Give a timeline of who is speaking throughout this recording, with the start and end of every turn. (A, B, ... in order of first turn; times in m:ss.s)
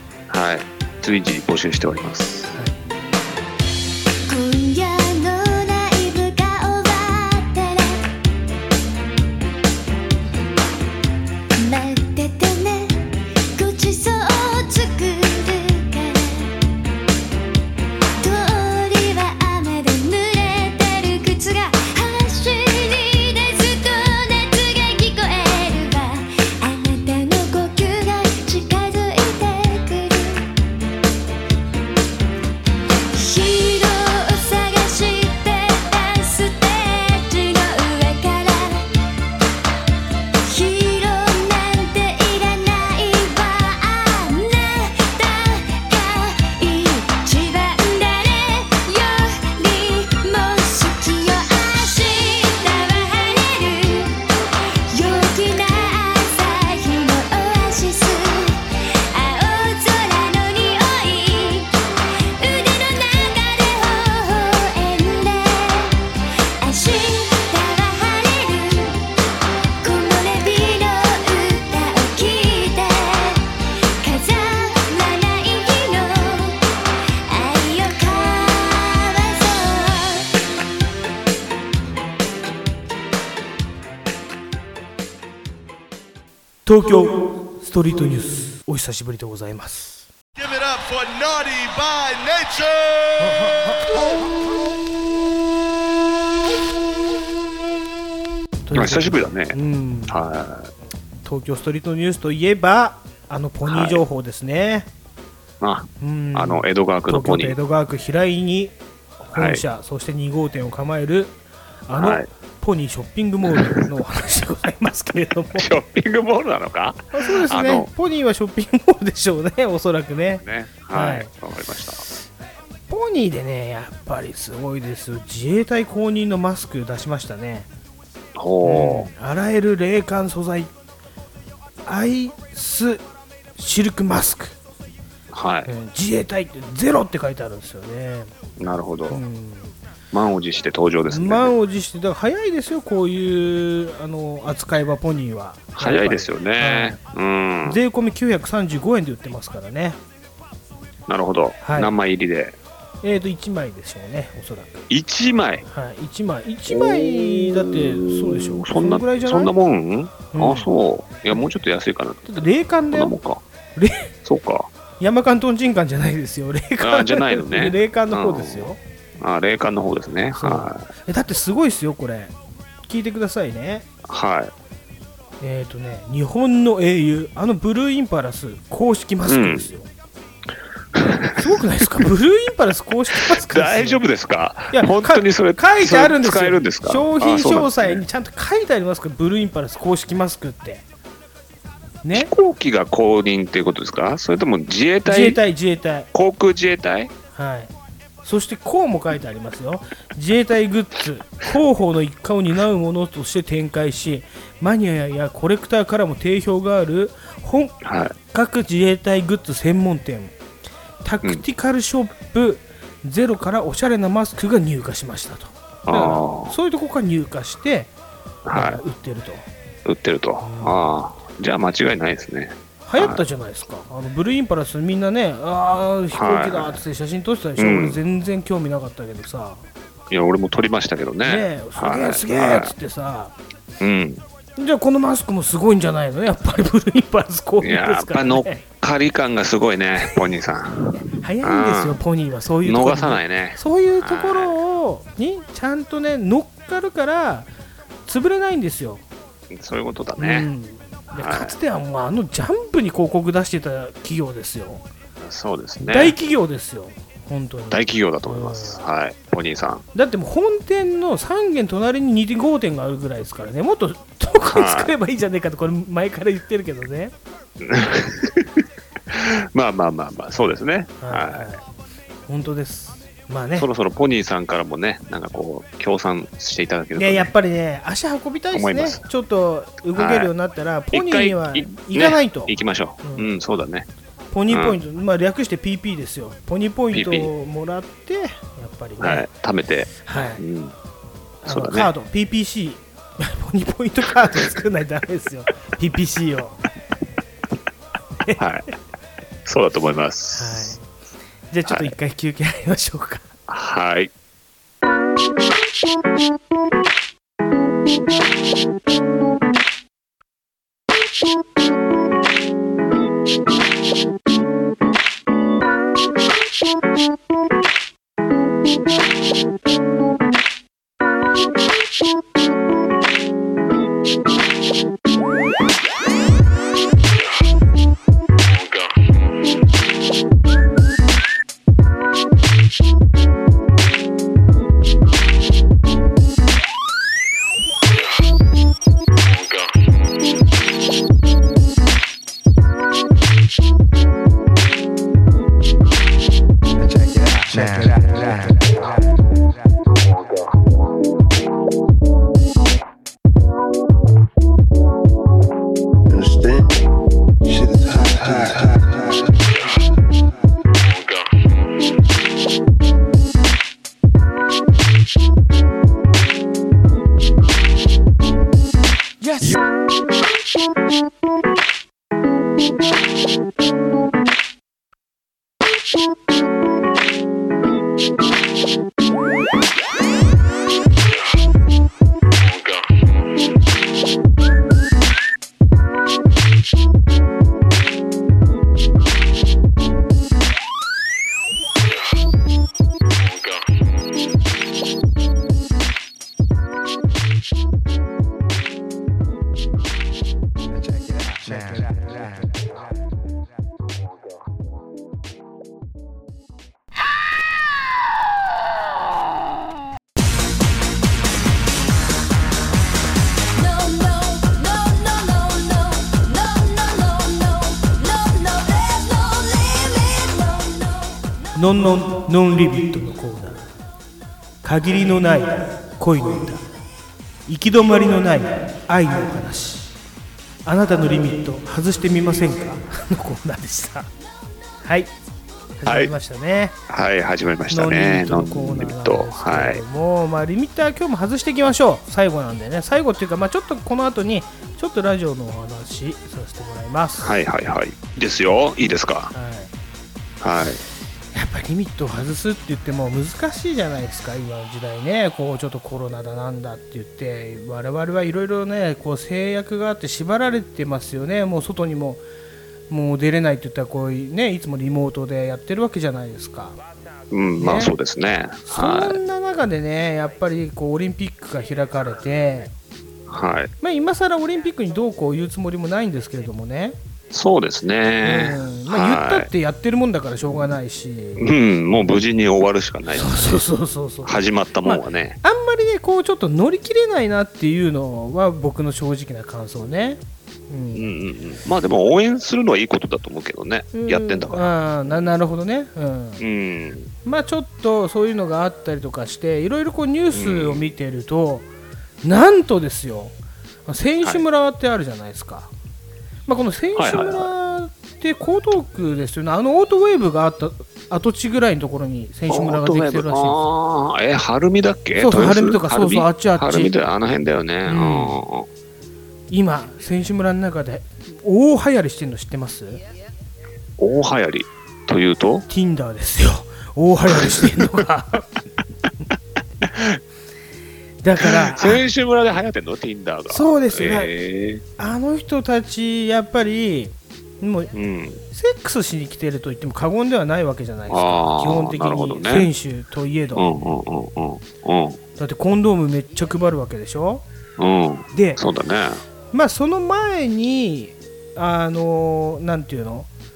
0:00.3-0:02.5 A
0:04.3-0:08.0 B
0:11.6-0:13.0 B
0:13.6-0:16.5 B
0:18.2-0:30.5 B
0:33.1-0:38.8 B
0:40.4-0:54.2 B
0:54.9-1:01.7 B
1:02.4-1:06.0 B
1:06.6-1:09.0 B
1:09.8-1:13.5 B
1:14.0-1:16.6 B
1:17.3-1:20.3 B
1:26.6-1:30.0 C
1:30.4-1:34.0 D
1:38.7-1:40.2 C
1:38.7-1:40.7 A
1:41.2-1:44.9 C
1:43.6-1:44.0 A
1:45.6-1:47.6 A
1:46.0-1:51.3 C
1:49.3-1:49.6 A
1:51.9-1:55.7 C
1:52.0-1:52.3 A
1:53.4-1:53.8 A
1:55.6-1:57.9 A
1:57.1-2:01.3 C
2:00.4-2:02.0 A
2:02.9-2:07.7 C
2:08.3-2:09.1 A
2:08.6-2:10.7 C
2:11.8-2:13.0 C
2:13.6-2:14.6 C
2:15.3-2:15.7 A
2:15.6-2:18.3 C
2:18.6-2:19.2 A
2:19.1-2:19.7 C
2:20.1-2:21.5 A
2:21.1-2:27.0 C
2:25.8-2:27.8 A
2:27.6-2:30.0 C
2:31.1-2:32.6 A
2:31.6-2:31.9 C
2:33.0-2:34.8 C
2:34.9-2:35.6 A
2:35.6-2:39.5 C
2:36.7-2:43.4 A
2:40.3-2:40.7 C
2:42.2-2:43.1 C
2:43.8-2:44.1 C
2:44.2-2:44.7 A
2:45.0-2:48.8 C
2:46.8-2:50.8 A
2:50.3-2:52.3 C
2:52.9-2:53.8 C
2:54.0-2:54.5 A
2:55.4-2:59.9 C
2:59.2-2:59.7 A
3:00.9-3:01.5 A
3:01.3-3:04.0 C
3:03.2-3:08.0 A
3:04.7-3:10.8 C
3:12.0-3:12.3 C
3:12.1-3:15.4 A
3:15.0-3:16.1 C
3:16.1-3:17.1 A
3:17.3-3:17.7 C
3:18.2-3:27.8 C
3:27.8-3:28.1 A
3:28.3-3:30.3 C
3:31.0-3:37.9 C
3:35.8-3:36.5 A
3:38.4-3:38.8 A
3:38.5-3:39.4 C
3:39.8-3:43.2 A
3:40.4-3:40.8 C
3:42.8-3:49.6 C
3:46.1-3:46.8 A
3:47.6-3:48.0 A
3:50.1-3:52.7 A
3:51.2-3:53.3 C
3:53.8-3:54.2 A
3:54.6-3:58.6 C
3:57.6-4:02.0 A
4:01.2-4:07.5 C
4:02.6-4:04.6 A
4:08.1-4:09.0 C
4:09.5-4:10.5 A
4:10.2-4:14.8 C
4:11.1-4:11.6 A
4:15.2-4:16.2 A
4:15.8-4:18.8 C
4:17.7-4:19.8 A
4:19.9-4:27.1 C
4:24.5-4:24.9 A
4:27.6-4:31.5 A
4:31.0-4:31.6 C
4:32.3-4:33.7 C
4:33.6-4:37.3 A
4:37.0-4:43.3 C
4:38.5-4:39.0 A
4:39.9-4:40.3 A
4:40.9-4:43.9 A
4:44.3-4:49.3 C
4:44.5-4:44.8 A
4:46.9-4:47.3 A
4:49.0-4:50.7 A
4:50.0-4:50.4 C
4:51.4-4:56.6 C
4:51.5-4:51.9 A
4:58.4-4:58.7 A
4:59.4-5:00.8 A
5:00.3-5:00.8 C
5:01.5-5:03.3 C
5:01.7-5:01.9 A
5:03.5-5:04.1 A
5:47.0-5:48.7 E
5:56.1-5:56.7 E
5:57.4-5:59.9 E
6:53.6-7:01.2 B
7:01.5-7:03.6 C
7:04.6-7:06.6 C
7:07.5-7:09.9 C
7:10.6-7:14.1 C
7:14.8-7:15.1 C
7:15.8-7:16.7 C
7:15.8-7:16.1 A
7:16.9-7:19.8 A
7:17.7-7:27.3 C
7:27.2-7:29.3 A
7:29.3-7:29.7 C
7:30.4-7:30.8 A
7:31.3-7:42.2 C
7:42.9-7:46.8 C
7:47.3-7:49.2 A
7:47.6-7:47.9 C
7:48.6-7:52.7 C
7:53.3-7:53.7 A
7:53.8-7:57.0 C
7:57.3-7:59.5 A
7:58.2-8:01.4 C
8:01.4-8:03.6 A
8:03.1-8:11.1 C
8:04.2-8:05.4 A
8:10.9-8:15.3 A
8:13.9-8:16.4 C
8:16.4-8:17.1 A
8:17.2-8:21.7 C
8:20.3-8:20.9 A
8:22.2-8:23.3 C
8:23.9-8:25.7 C
8:26.5-8:33.6 C
8:27.0-8:27.5 A
8:32.5-8:38.7 A
8:35.2-8:36.9 C
8:37.8-8:38.4 C
8:39.5-8:43.0 C
8:44.0-8:45.6 A
8:45.7-8:48.5 C
8:47.3-8:48.0 A
8:49.8-8:50.2 A
8:51.2-8:52.0 C
8:51.4-8:54.8 A
8:53.5-8:54.3 C
8:55.0-8:57.9 C
8:57.9-8:58.4 A
8:58.5-9:03.9 C
9:01.1-9:02.7 A
9:03.5-9:05.2 A
9:05.4-9:07.4 C
9:07.8-9:09.2 A
9:08.3-9:08.6 C
9:09.5-9:13.3 C